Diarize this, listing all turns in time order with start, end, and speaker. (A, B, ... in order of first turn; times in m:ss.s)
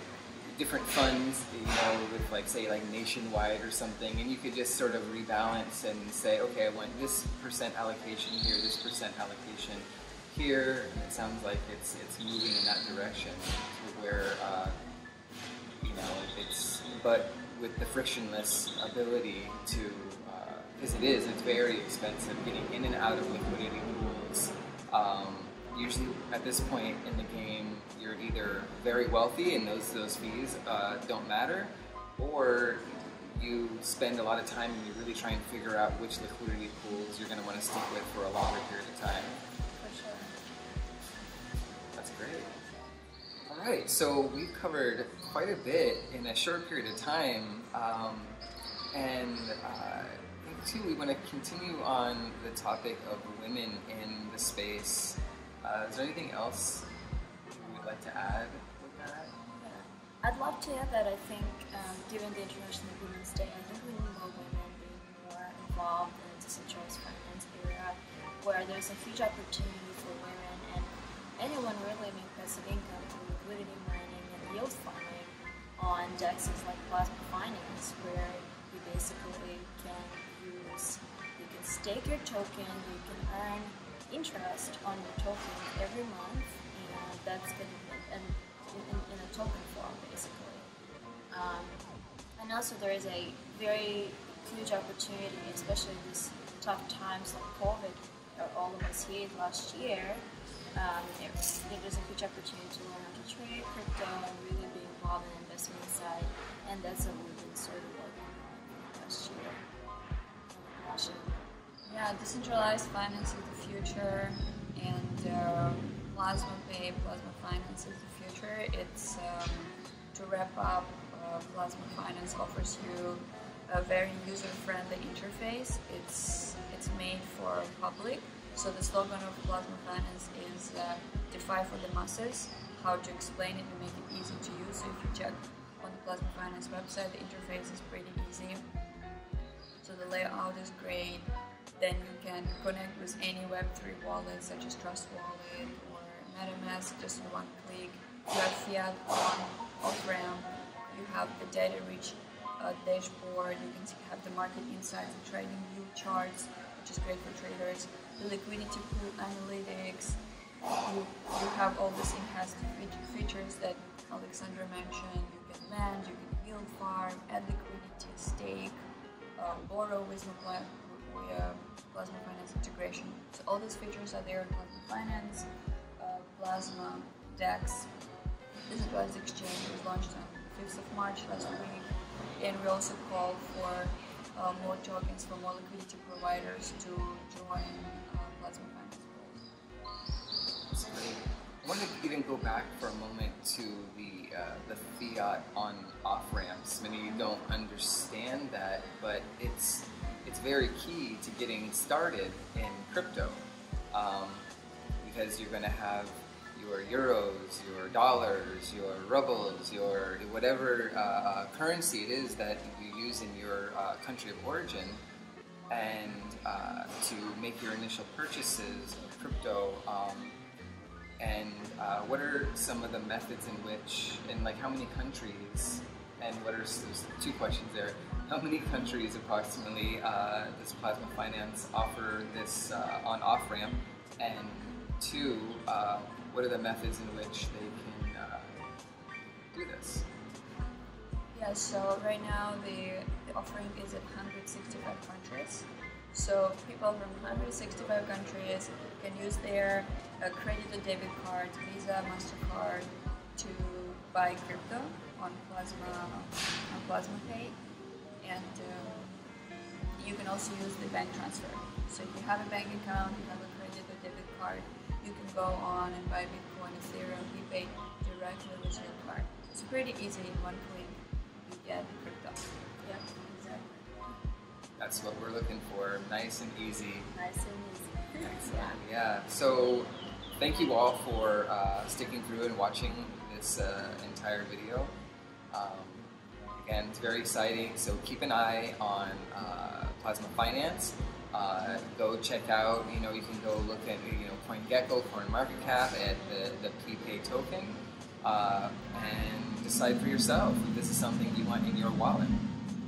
0:00.4-0:14.8 A
0:15.8-0:39.4 A
0:39.8-0:40.3 B
0:42.0-0:42.6 A
0:43.5-0:48.4 A
0:48.9-0:56.9 A
0:57.5-0:59.3 A
0:59.6-1:30.7 B
1:31.3-1:31.8 B
1:32.4-1:40.2 B
1:40.7-1:49.6 B
1:50.5-1:51.5 B
1:51.9-2:18.7 C
2:19.8-2:40.2 C
2:40.8-2:48.8 C
2:49.4-2:55.5 C
2:56.0-2:57.9 C
2:58.7-3:09.4 C
3:10.7-3:23.4 A
3:23.9-3:24.5 A
3:25.0-3:35.0 A
3:35.7-3:40.4 A
3:41.2-3:58.6 A
3:59.5-4:00.1 A
4:01.3-4:17.6 C
4:18.2-4:19.1 C
4:20.0-4:32.5 C
4:32.8-4:33.8 B
4:33.2-4:33.6 C
4:34.8-4:37.1 A
4:37.1-4:38.8 B
4:38.2-4:44.9 A
4:45.5-5:02.4 A